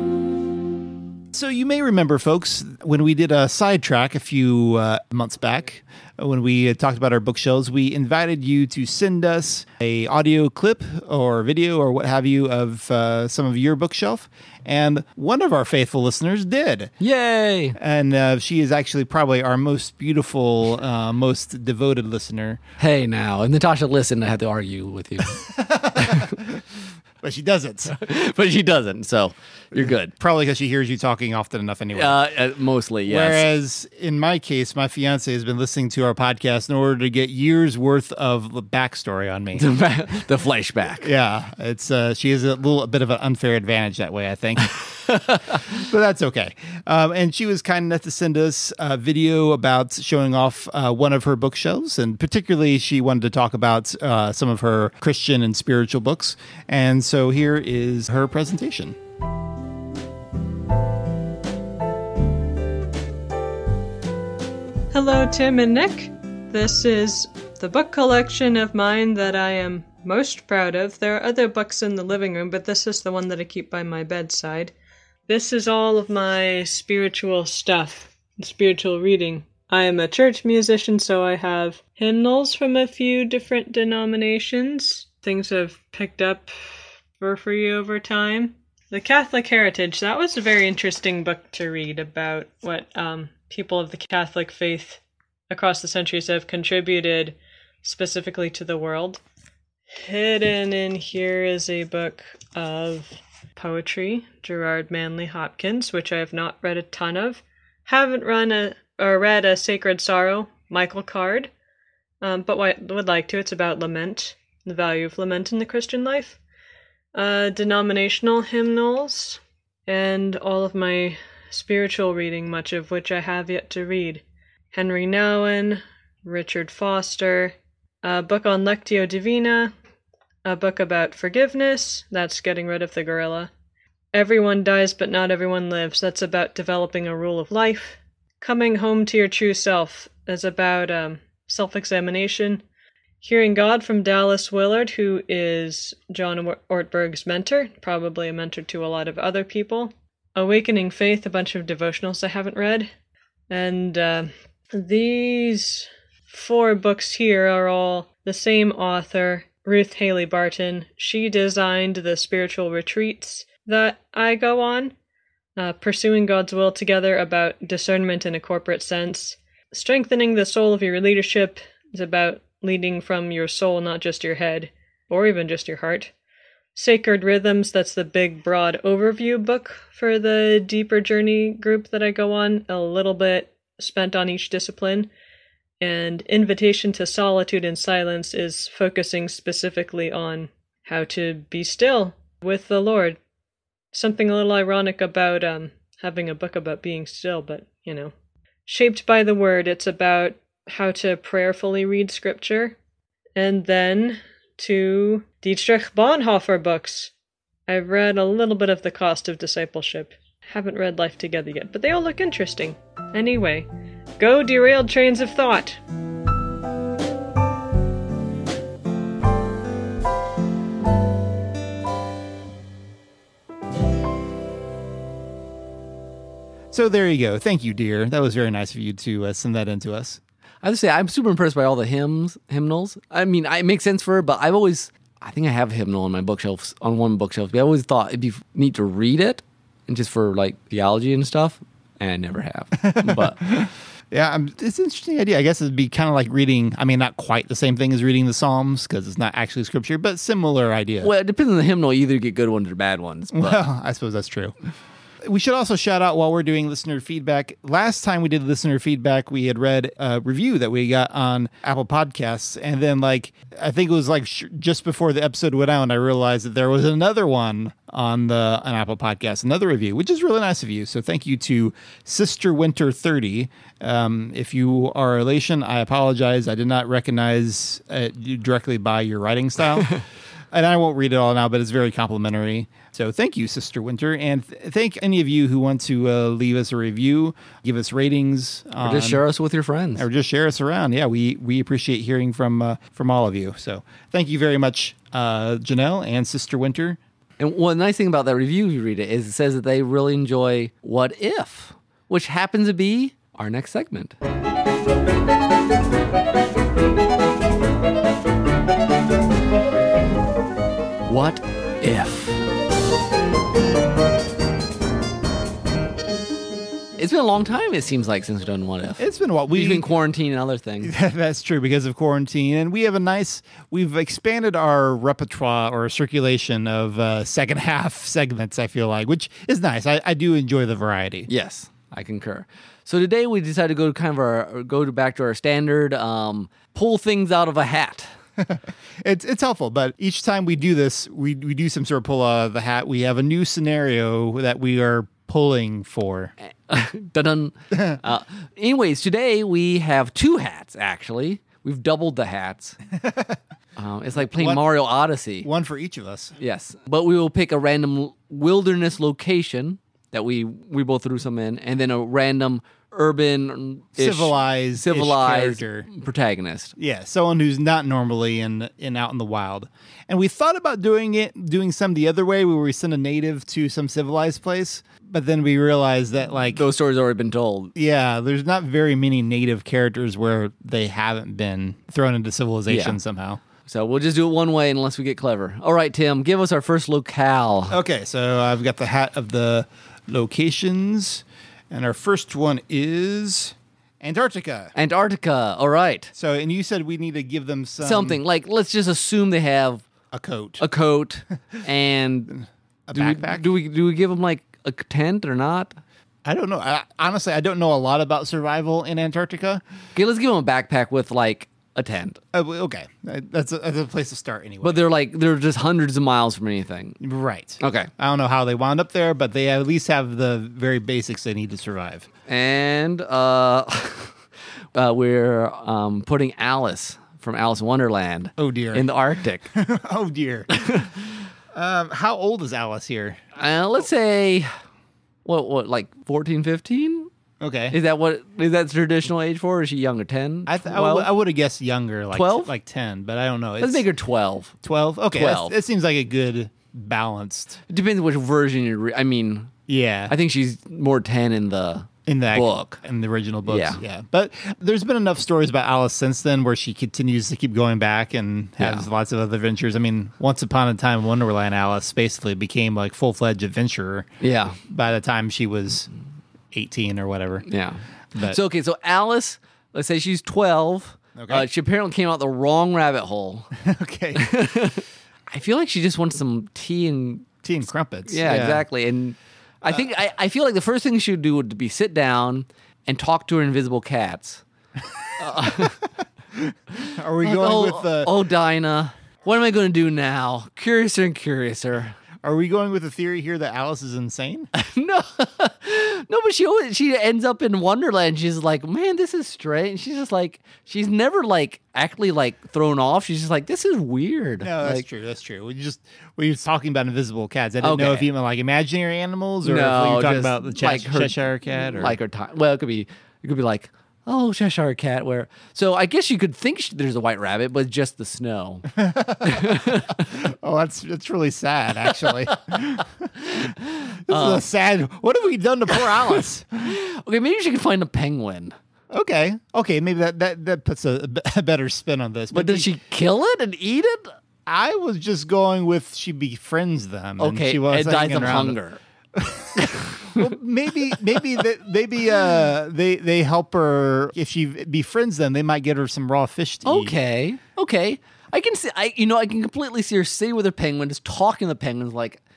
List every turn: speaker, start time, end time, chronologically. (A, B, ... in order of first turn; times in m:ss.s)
0:01.3-0:16.9 A
0:17.0-0:17.8 B
0:17.8-0:22.6 A
0:22.8-0:26.4 B
0:25.4-0:26.6 A
0:27.2-0:27.9 A
0:27.9-0:30.1 B
0:29.8-0:32.2 A
0:31.9-0:33.5 B
0:33.1-0:39.7 A
0:39.6-0:41.1 B
0:41.0-0:59.0 A
1:04.9-1:14.7 C
1:15.3-1:26.5 C
1:27.2-1:39.2 C
1:39.9-1:51.5 C
1:52.2-1:56.4 C
1:57.1-2:09.7 C
2:10.4-2:13.5 C
2:14.1-2:22.6 C
2:23.2-2:32.9 C
2:33.5-2:44.9 C
2:45.6-2:56.1 C
2:56.8-3:05.1 C
3:05.8-3:13.2 C
3:13.9-3:18.1 C
3:18.7-3:22.8 C
3:23.4-3:27.1 C
3:27.7-3:33.7 C
3:34.2-3:35.8 C
3:46.7-3:50.2 A
3:50.6-4:03.5 B
4:02.8-4:11.1 A
4:11.0-4:13.6 B
4:13.3-4:14.5 A
4:15.2-4:49.2 A
4:48.8-4:50.1 B
4:50.0-4:57.0 A
4:57.4-5:04.2 B
5:11.1-5:12.4 B
5:17.0-5:20.9 B
5:19.0-5:19.9 A
5:20.8-5:31.3 A
5:31.3-5:38.1 B
5:38.4-5:46.3 A
5:46.7-5:52.8 B
5:53.0-5:53.4 A
5:53.8-5:55.5 B
5:54.3-5:54.6 A
5:55.4-5:56.4 A
5:56.4-6:06.7 B
6:04.0-6:05.9 A
6:06.8-6:16.6 A
6:16.5-6:17.7 B
6:17.8-6:23.4 A
6:22.7-6:23.0 B
6:23.6-6:27.8 B
6:27.7-6:34.7 A
6:34.8-6:36.1 B
6:36.2-6:38.2 A
6:37.8-6:39.8 B
6:40.1-6:40.6 A
6:40.6-6:42.4 B
6:42.3-6:43.5 A
6:42.9-6:45.8 B
6:46.2-6:49.6 A
6:49.9-6:52.2 B
6:52.3-6:54.8 A
6:54.6-6:57.0 B
6:57.0-7:02.1 A
6:57.6-6:57.9 B
7:02.3-7:04.2 B
7:04.7-7:09.5 B
7:08.4-7:08.9 A
7:09.5-7:10.9 A
7:10.5-7:10.9 B
7:11.5-7:13.2 A
7:13.4-7:14.5 B
7:15.2-7:17.1 B
7:17.4-7:17.8 A
7:17.7-7:21.1 B
7:20.5-7:23.8 A
7:22.1-7:22.5 B
7:23.6-7:24.5 B
7:24.6-7:27.6 A
7:25.1-7:25.6 B
7:27.7-7:29.5 B
7:29.7-7:30.1 A
7:30.1-7:32.8 B
7:32.1-7:44.1 A
7:33.5-7:33.8 B
7:38.6-7:38.9 B
7:44.2-7:44.6 B
7:44.6-7:45.9 A
7:46.5-7:47.5 A
7:47.5-7:53.5 B
7:51.2-7:51.5 A
7:53.6-7:54.2 A
7:54.2-7:57.3 B
7:57.4-7:58.6 A
7:58.1-8:04.4 B
8:05.2-8:05.8 B
8:05.4-8:05.7 A
8:06.3-8:08.1 A
8:07.2-8:12.0 B
8:12.2-8:14.5 A
8:14.5-8:24.9 B
8:24.4-8:32.0 A
8:27.6-8:28.1 B
8:29.4-8:31.2 B
8:31.7-8:40.0 B
8:38.7-8:46.7 A
8:43.2-8:44.4 B
8:45.7-8:46.1 B
8:46.6-8:48.6 B
8:48.9-8:52.7 A
8:52.3-8:54.1 B
8:54.5-8:58.6 A
8:57.2-8:58.8 B
8:59.2-9:07.0 A
8:59.6-9:00.3 B
9:06.6-9:12.2 B